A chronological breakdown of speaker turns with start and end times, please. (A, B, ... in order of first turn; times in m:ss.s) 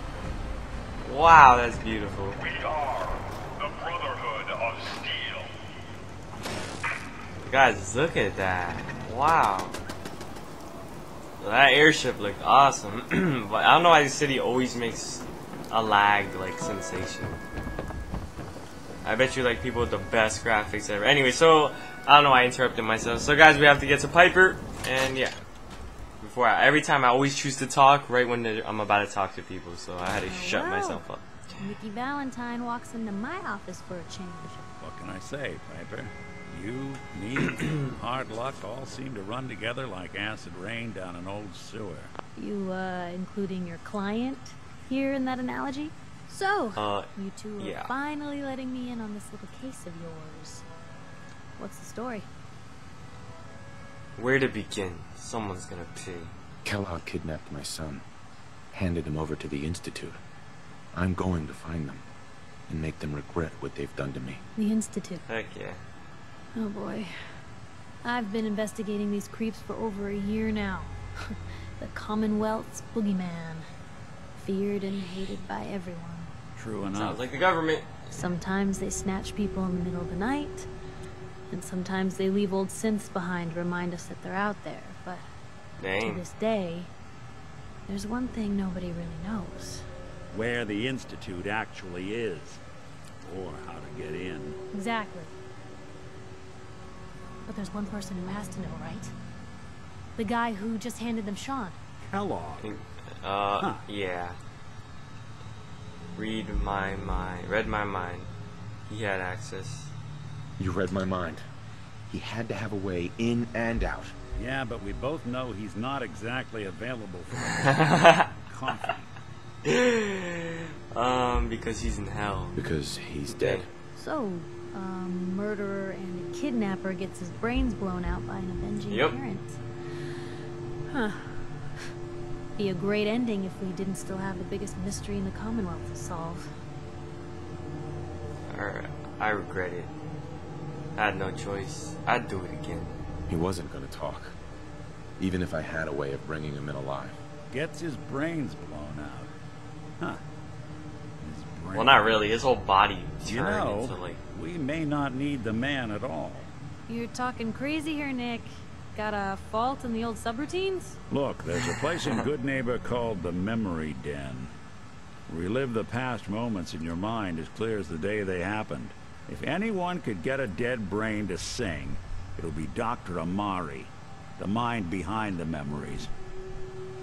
0:01.0-0:02.4 A
0:02.4-0:05.5 B
0:07.5-0:09.8 A
0:11.4-0:17.4 A
0:19.0-0:25.4 A
0:26.2-0:31.7 A
0:30.2-0:31.0 C
0:31.6-0:34.6 C
0:34.8-0:42.1 D
0:42.4-0:50.6 C
0:46.7-0:47.9 A
0:51.6-0:52.3 C
0:54.2-0:56.4 A
0:56.6-0:58.0 E
0:58.7-1:00.2 E
1:00.9-1:02.0 E
1:02.7-1:04.4 E
1:04.6-1:05.2 C
1:05.3-1:05.8 A
1:06.5-1:07.1 C
1:08.0-1:13.7 C
1:14.4-1:16.3 C
1:16.6-1:17.2 D
1:16.9-1:18.2 A
1:18.1-1:20.7 C
1:21.5-1:25.2 C
1:25.8-1:26.2 A
1:26.0-1:26.9 C
1:27.9-1:29.8 C
1:30.3-1:32.6 D
1:33.2-1:34.6 D
1:34.7-1:35.3 C
1:37.5-1:39.1 C
1:40.2-1:41.8 C
1:42.1-1:42.7 D
1:42.6-1:44.4 A
1:46.2-1:48.3 A
1:48.9-1:49.9 A
1:50.6-1:51.4 E
1:52.1-1:54.1 E
1:54.4-1:59.1 D
1:57.7-1:58.3 A
1:59.6-2:02.6 A
2:02.6-2:03.7 E
2:03.3-2:03.7 A
2:03.9-2:10.1 C
2:08.9-2:09.2 A
2:10.9-2:11.9 C
2:12.6-2:16.5 C
2:18.5-2:19.9 A
2:21.0-2:23.0 A
2:23.3-2:24.4 E
2:25.2-2:27.2 E
2:27.5-2:29.3 D
2:31.2-2:32.2 D
2:31.7-2:34.2 A
2:33.3-2:36.5 D
2:36.9-2:41.0 C
2:41.1-2:44.5 D
2:41.9-2:42.2 A
2:45.3-2:56.1 D